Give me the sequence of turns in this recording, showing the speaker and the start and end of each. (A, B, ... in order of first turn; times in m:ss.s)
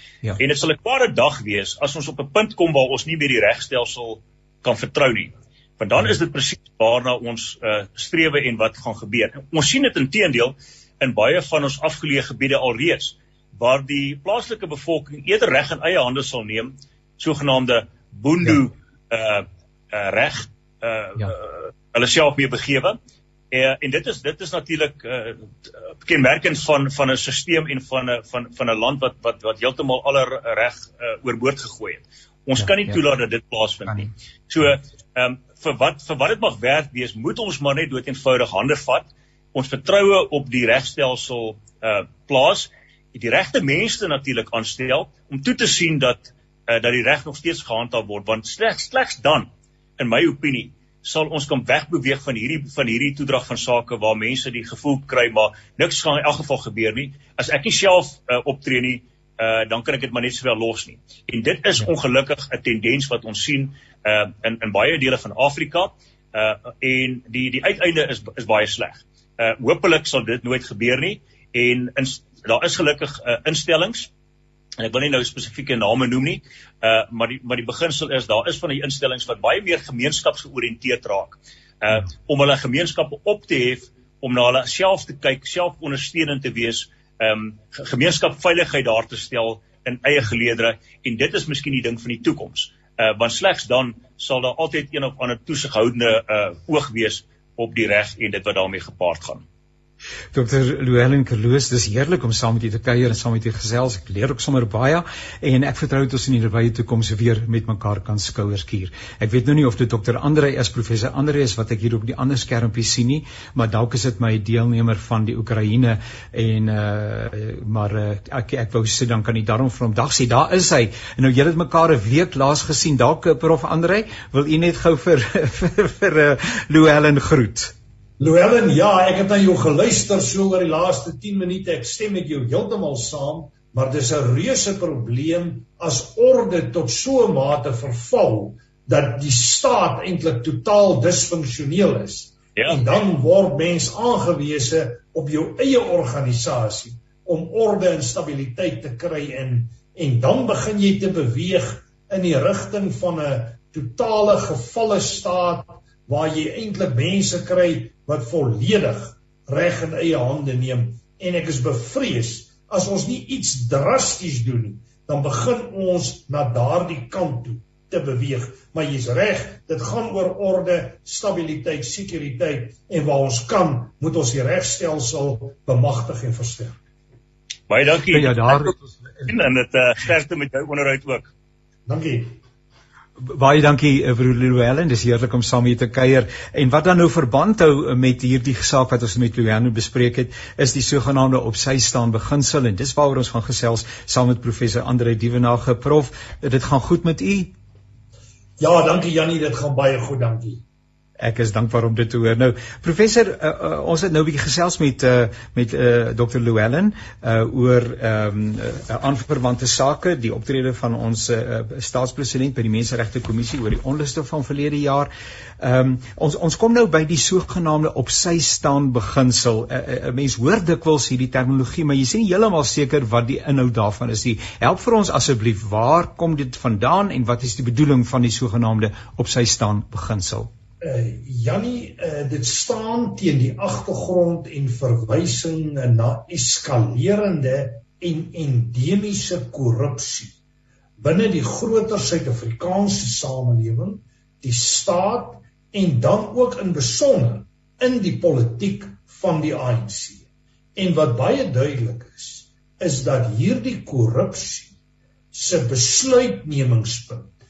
0:00.4-0:23.0 A
0:23.5-0:25.5 A
0:26.0-1:14.1 A
1:14.8-1:39.4 A
1:40.3-2:07.7 B
2:08.2-2:56.8 C
2:57.7-2:58.7 A
2:58.1-2:58.8 B
2:59.3-3:01.3 A
3:01.9-3:02.4 C
3:03.2-3:17.5 B
3:18.6-3:20.6 C
3:21.2-3:35.1 B
3:35.6-3:50.5 B
3:50.8-4:00.3 C
4:01.0-4:10.2 C
4:10.8-4:14.7 C
4:15.3-4:17.3 C